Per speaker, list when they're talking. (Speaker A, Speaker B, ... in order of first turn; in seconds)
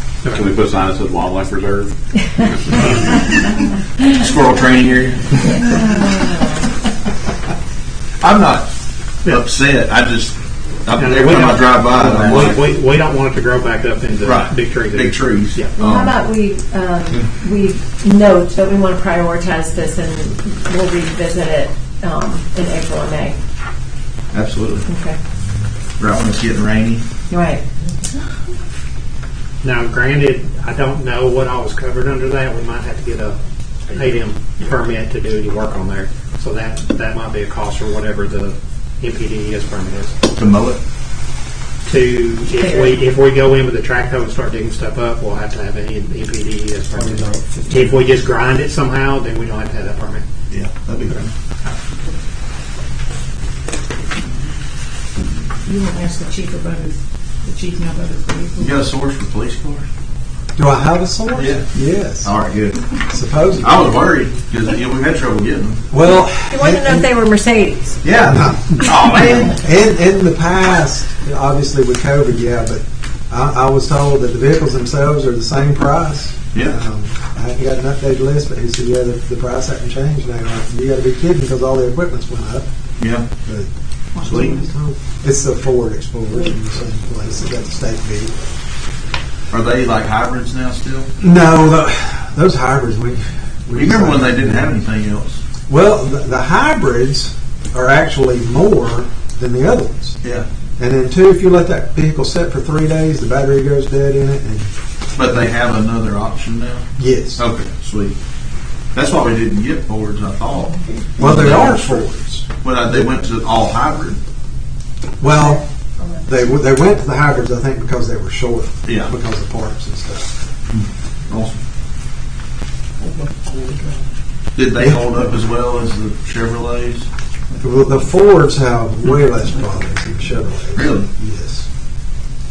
Speaker A: 0.2-0.5, 11.0-15.8, 29.6-33.4, 33.9-40.1, 41.9-50.2
Speaker B: 0.3-3.2
Speaker C: 4.2-5.7, 8.2-8.7, 9.2-12.7, 14.2-16.2, 24.3-24.9, 26.0-27.0, 40.4-40.8, 50.5-51.3, 58.6-59.9, 61.3-62.9, 63.6-65.8, 68.0-69.6, 76.5-76.8, 83.0-83.3, 84.2-84.6, 89.5-91.1, 93.7-95.4, 105.2-108.2, 108.9-112.1, 112.6-114.2, 118.8-119.1, 120.7-121.6, 124.5-127.1, 130.8-131.1
Speaker D: 5.6-6.7, 15.7-23.4, 24.9-25.2, 27.3-27.6, 42.5-43.0, 66.5-68.0, 115.3-116.2, 123.5-123.9
Speaker E: 46.9-48.0, 60.6-62.4, 63.1-63.9, 65.9-67.1, 68.1-82.7, 83.3-83.7, 84.2-88.3, 91.2-94.8, 95.7-100.2, 100.8-104.7, 107.0-107.5, 111.2-112.5, 115.2-120.3, 127.6-131.7
Speaker F: 55.6-58.8, 84.1-84.7